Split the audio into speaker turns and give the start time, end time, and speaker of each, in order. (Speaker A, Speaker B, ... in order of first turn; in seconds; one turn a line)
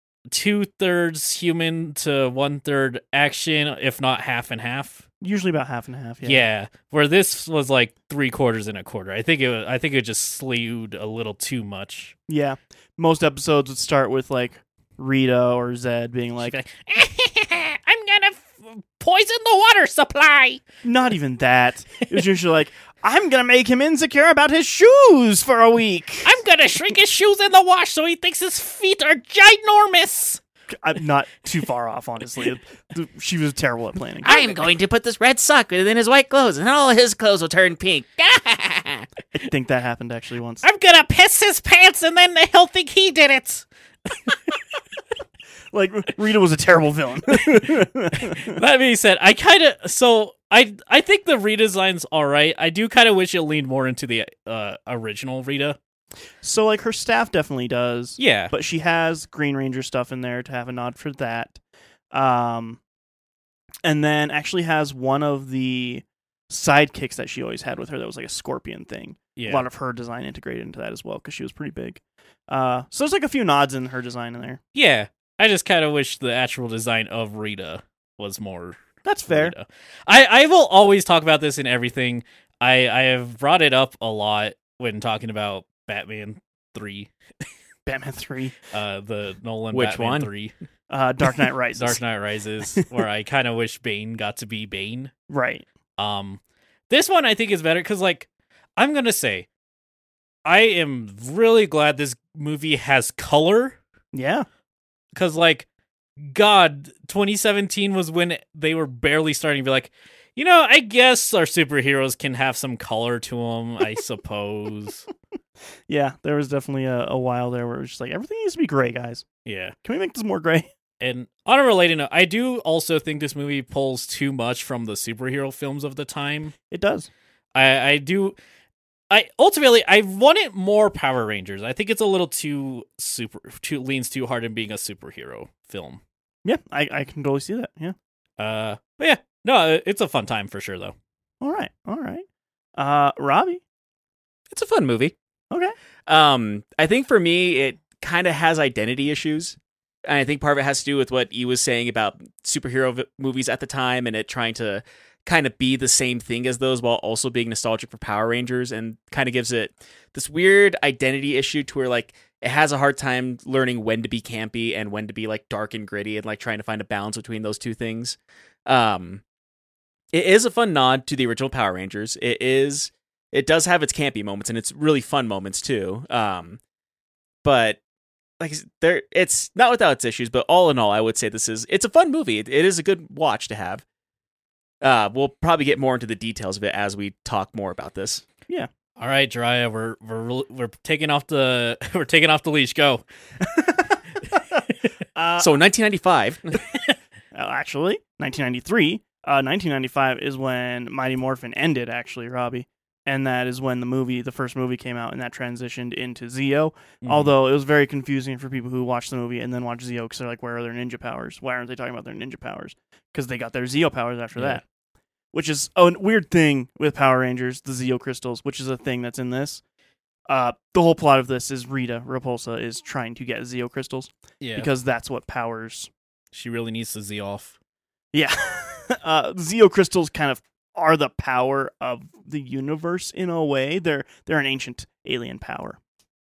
Speaker A: 0.3-5.0
Speaker B: 5.2-6.5
Speaker A: 6.2-12.2
Speaker B: 12.3-16.6
Speaker A: 16.4-20.6
Speaker B: 20.8-26.3
Speaker A: 26.2-30.4
Speaker B: 30.8-34.6
Speaker C: 34.2-39.1
Speaker B: 39.3-40.6
Speaker A: 40.6-44.4
Speaker B: 45.7-48.6
Speaker A: 48.3-55.8
Speaker B: 56.4-61.6
Speaker A: 58.2-58.5
Speaker B: 62.1-62.8
Speaker B: 63.9-74.6
Speaker A: 69.4-69.7
Speaker A: 74.7-87.1
Speaker B: 79.0-79.5
Speaker B: 87.9-88.5
Speaker A: 88.7-90.5
Speaker C: 89.7-90.3
Speaker B: 90.9-92.0
Speaker A: 91.8-95.1
Speaker B: 95.3-95.7
Speaker A: 96.0-99.5
Speaker A: 100.5-103.8
Speaker B: 104.1-104.5
Speaker A: 105.2-105.7
Speaker A: 106.2-115.1
Speaker B: 115.9-119.3
Speaker A: 119.5-119.8
Speaker B: 119.8-120.7
Speaker A: 121.0-126.5
Speaker B: 126.7-127.1
Speaker A: 127.5-128.4
Speaker A: 129.1-136.0
Speaker B: 136.4-137.9
Speaker A: 138.4-140.9
Speaker B: 141.4-142.2
Speaker B: 142.8-143.6
Speaker C: 144.5-145.2
Speaker C: 146.1-169.2
Speaker C: 170.1-176.6
Speaker C: 177.4-177.8
Speaker C: 178.4-183.8
Speaker C: 184.8-188.2
Speaker A: 189.0-193.0
Speaker B: 193.5-193.9
Speaker B: 195.2-195.5
Speaker C: 195.4-196.6
Speaker B: 197.3-214.6
Speaker A: 207.0-207.3
Speaker A: 214.4-214.6
Speaker B: 215.3-219.6
Speaker B: 220.3-225.9
Speaker A: 224.4-224.7
Speaker A: 226.3-227.6
Speaker B: 228.1-235.8